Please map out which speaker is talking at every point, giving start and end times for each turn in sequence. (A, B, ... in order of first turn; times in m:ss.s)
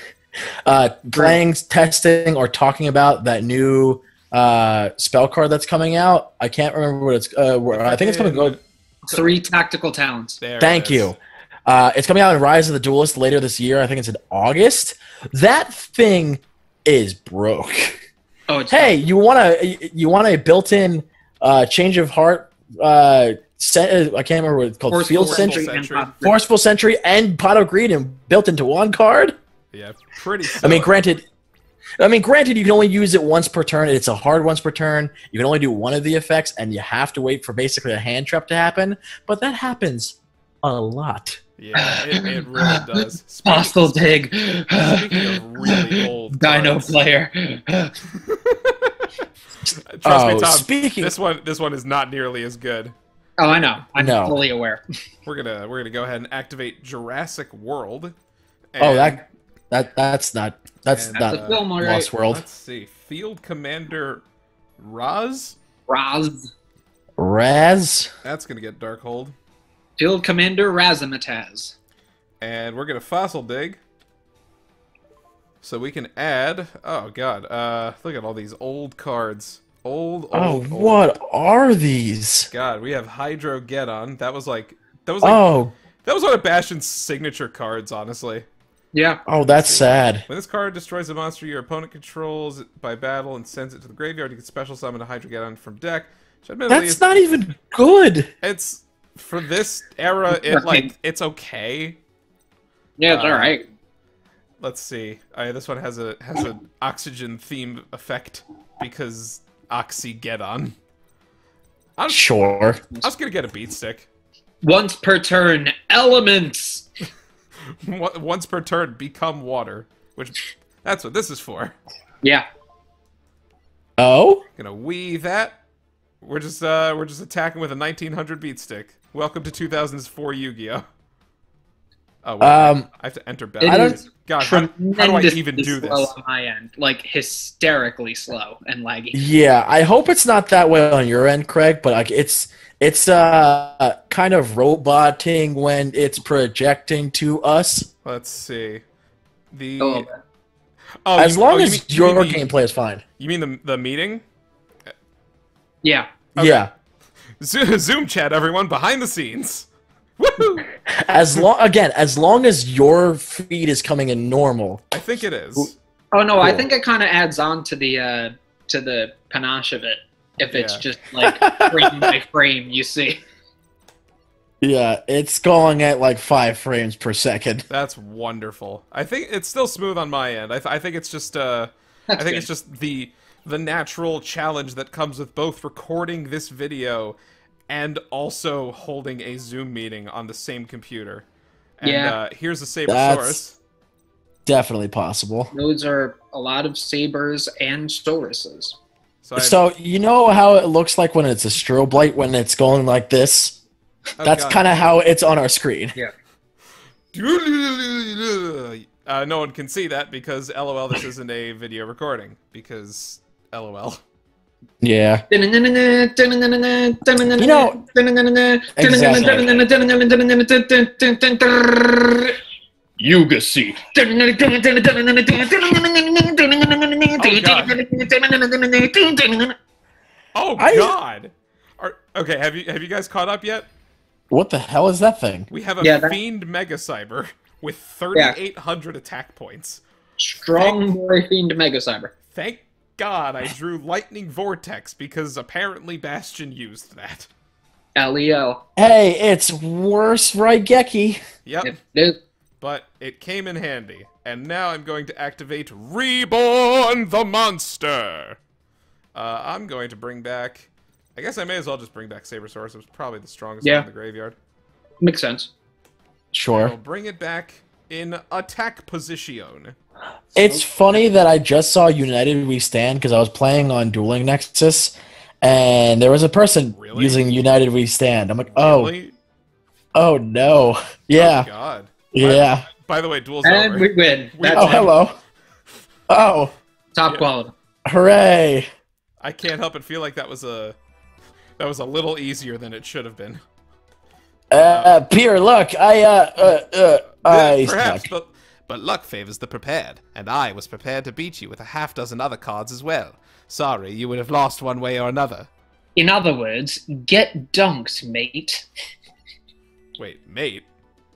0:00.7-0:08.6 A
0:07.7-0:09.4 B
0:09.1-0:10.4 C
0:10.4-0:11.2 B
0:10.6-0:11.2 A
0:11.7-0:18.0 A
0:18.5-0:19.0 C
0:18.7-0:25.6 A
0:24.9-0:26.4 C
0:25.1-0:26.1 B
0:26.2-0:29.4 A
0:29.7-0:31.0 B
0:30.5-0:31.2 A
0:32.0-0:41.4 A
0:41.6-0:47.0 B
0:41.8-0:47.9 C
0:48.1-0:49.1 B
0:49.9-0:53.0 B
0:50.0-0:51.1 A
0:53.4-0:54.8 C
0:53.5-0:53.8 B
0:54.0-0:54.4 A
0:55.2-0:58.1 B
0:58.7-0:59.2 B
0:58.8-1:02.4 A
1:00.9-1:04.2 B
1:01.2-1:02.1 C
1:04.8-1:05.6 B
1:05.9-1:06.5 C
1:07.2-1:08.1 A
1:08.2-1:09.4 B
1:10.0-1:11.8 C
1:12.4-1:13.8 B
1:15.6-1:21.0 B
1:20.3-1:22.5 A
1:22.5-1:25.5 B
1:25.2-1:25.7 A
1:26.0-1:28.5 B
1:28.9-1:29.2 C
1:29.3-1:30.3 A
1:29.4-1:37.1 B
1:36.7-1:38.3 A
1:38.4-1:42.0 B
1:40.3-1:40.9 C
1:43.0-1:43.6 C
1:43.1-1:43.6 B
1:44.6-1:50.8 B
1:52.0-1:54.1 B
1:52.1-1:52.8 A
1:54.6-1:56.9 C
1:57.8-2:01.8 B
2:04.0-2:04.4 A
2:04.6-2:05.6 B
2:06.2-2:10.8 B
2:12.2-2:16.1 B
2:12.4-2:12.9 A
2:13.6-2:19.2 C
2:13.6-2:14.0 A
2:19.1-2:27.9 A
2:28.0-2:28.8 B
2:29.5-2:30.1 B
2:29.8-2:30.2 C
2:31.0-2:32.4 B
2:31.2-2:33.0 A
2:33.2-2:34.2 B
2:35.8-2:36.1 C
2:36.4-2:36.7 B
2:36.4-2:36.7 A
2:37.4-2:39.7 B
2:40.2-2:40.7 B
2:40.9-2:44.8 A
2:44.9-2:45.8 B
2:46.1-2:53.2 C
2:46.4-2:46.7 A
2:50.5-2:50.8 B
2:51.2-2:52.1 A
2:54.6-2:57.7 A
2:57.7-3:07.2 B
3:02.1-3:02.5 C
3:07.7-3:11.2 B
3:11.8-3:13.6 B
3:11.8-3:12.2 C
3:12.9-3:13.5 A
3:14.5-3:15.5 A
3:15.5-3:18.8 C
3:19.2-3:19.6 B
3:19.4-3:23.6 A
3:24.2-3:24.7 B
3:24.2-3:26.0 A
3:27.1-3:34.0 B
3:34.8-3:35.2 A
3:35.3-3:42.4 C
3:37.4-3:37.8 A
3:38.8-3:39.5 A
3:43.0-3:49.6 C
3:47.2-3:47.8 B
3:50.4-3:53.7 B
3:50.6-3:51.0 A
3:54.3-3:55.5 A
3:55.5-3:59.8 B
3:55.8-3:56.2 C
4:00.2-4:02.1 C
4:00.6-4:00.9 B
4:02.3-4:07.3 B
4:08.0-4:08.6 C
4:08.8-4:11.2 A
4:11.4-4:11.8 B
4:11.6-4:12.2 C
4:12.6-4:18.4 B
4:19.2-4:24.4 B
4:25.0-4:25.5 C
4:26.3-4:26.8 A
4:26.5-4:29.8 B
4:30.4-4:38.9 A
4:36.7-4:37.2 B
4:38.5-4:39.2 B
4:40.0-4:41.5 A
4:41.2-4:45.0 B
4:42.1-4:42.7 A
4:43.4-4:44.9 C
4:44.6-4:45.2 A
4:46.1-4:46.5 A
4:47.0-4:47.5 C
4:47.9-4:48.7 A
4:49.2-4:50.8 B
4:51.6-4:53.4 B
4:54.5-4:58.1 A
4:54.5-4:55.0 B
4:57.2-5:05.5 B
5:06.0-5:08.7 C
5:10.0-5:10.7 B